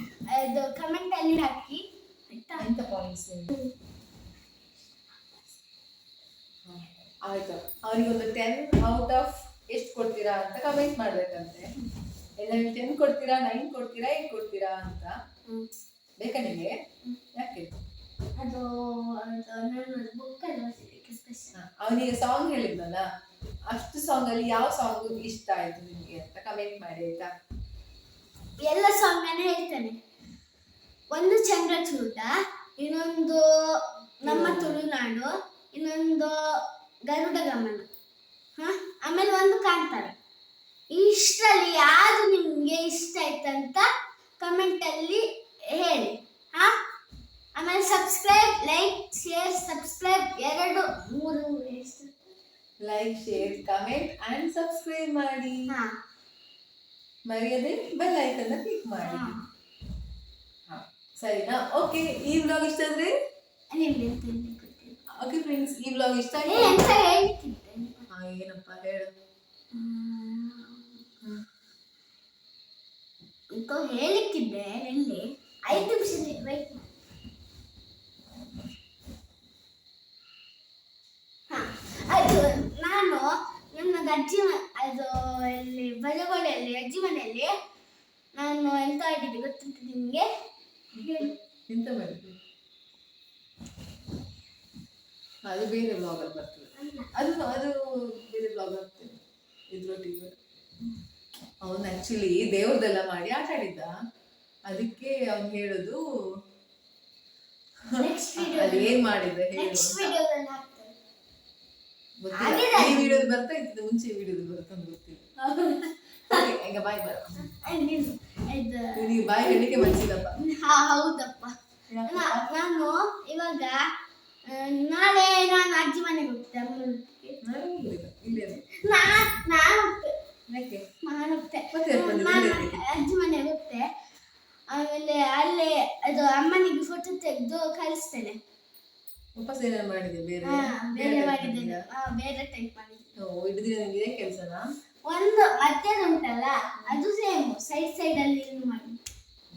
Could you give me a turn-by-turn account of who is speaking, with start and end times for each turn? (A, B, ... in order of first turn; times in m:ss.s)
0:00.3-0:02.7 A
0:02.6-0:03.5 B
0:06.7-0:11.7 B
0:12.4-0:15.2 B
0:16.2-0:16.8 B
0:17.4-0:17.8 B
0:18.4-0:21.6 A
0:21.6-0:23.0 B
0:23.7-0:27.3 B
0:28.6-0:30.0 A
0:31.1-0:33.5 A
0:34.2-0:37.9 A
0:34.3-0:34.8 B
0:38.6-0:40.2 A
0:40.9-0:43.9 A
0:44.4-0:46.7 A
0:47.6-0:52.1 A
0:52.8-0:55.7 B
0:57.3-0:59.4 B
0:59.0-0:59.4 A
1:00.7-1:03.1 B
1:03.7-1:05.0 A
1:05.2-1:06.9 B
1:06.4-1:08.0 A
1:08.1-1:09.1 B
1:09.7-1:11.0 A
1:13.5-1:16.9 A
1:21.5-1:27.5 A
1:28.4-1:30.3 A
1:31.0-1:31.3 A
1:31.0-1:32.3 B
1:35.5-1:39.2 B
1:36.8-1:37.1 A
1:39.7-1:40.4 B
1:41.6-1:43.9 B
1:44.7-1:46.0 B
1:47.9-1:49.0 A
1:47.9-1:50.1 B
1:49.5-1:50.9 A
1:52.2-1:57.4 B
1:52.3-1:53.3 A
1:57.5-2:03.8 A
1:59.0-2:00.4 B
2:01.9-2:02.5 B
2:04.5-2:07.4 A
2:07.4-2:08.6 B
2:08.7-2:10.1 A
2:10.5-2:10.8 B
2:11.0-2:13.9 A
2:11.7-2:12.8 B
2:14.7-2:18.4 A
2:19.4-2:21.8 B
2:20.4-2:23.1 A
2:23.2-2:24.6 B
2:25.1-2:29.0 A